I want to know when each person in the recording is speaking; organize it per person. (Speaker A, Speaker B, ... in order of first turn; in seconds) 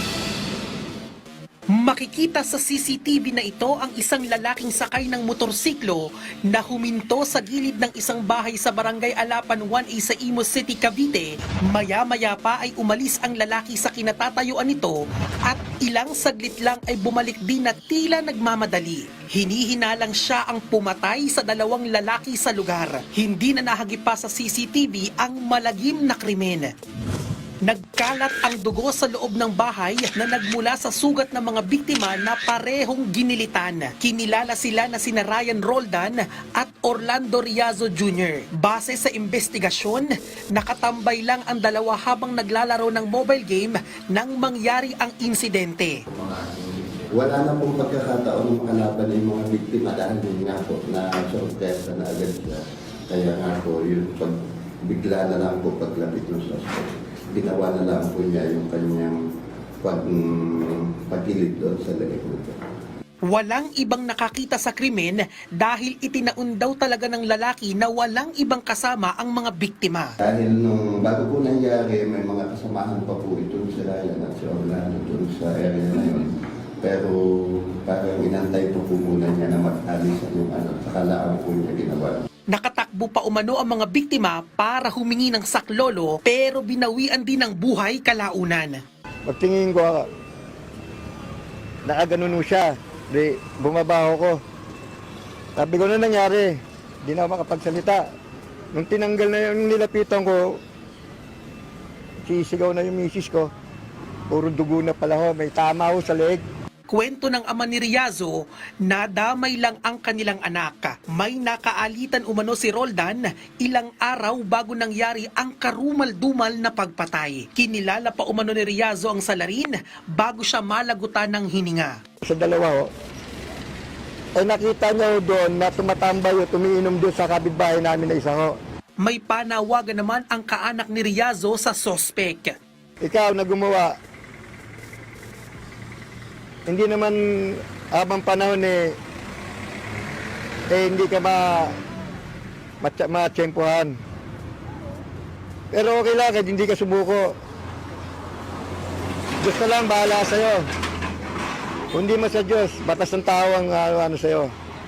Speaker A: 1.7-26.7, 27.6-46.0, 63.3-70.1, 82.5-88.8, 106.9-122.0, 129.0-132.5
Speaker B: 46.1-59.2, 59.8-62.6, 70.2-82.3
Speaker C: 89.2-90.1, 91.8-94.4, 95.5-98.0, 98.7-100.6, 102.2-103.5, 104.3-106.4, 122.2-122.9, 124.4-128.6, 133.0-134.0, 136.7-139.0, 140.7-141.8, 142.8-144.0, 145.7-147.4, 149.4-150.6, 151.9-154.5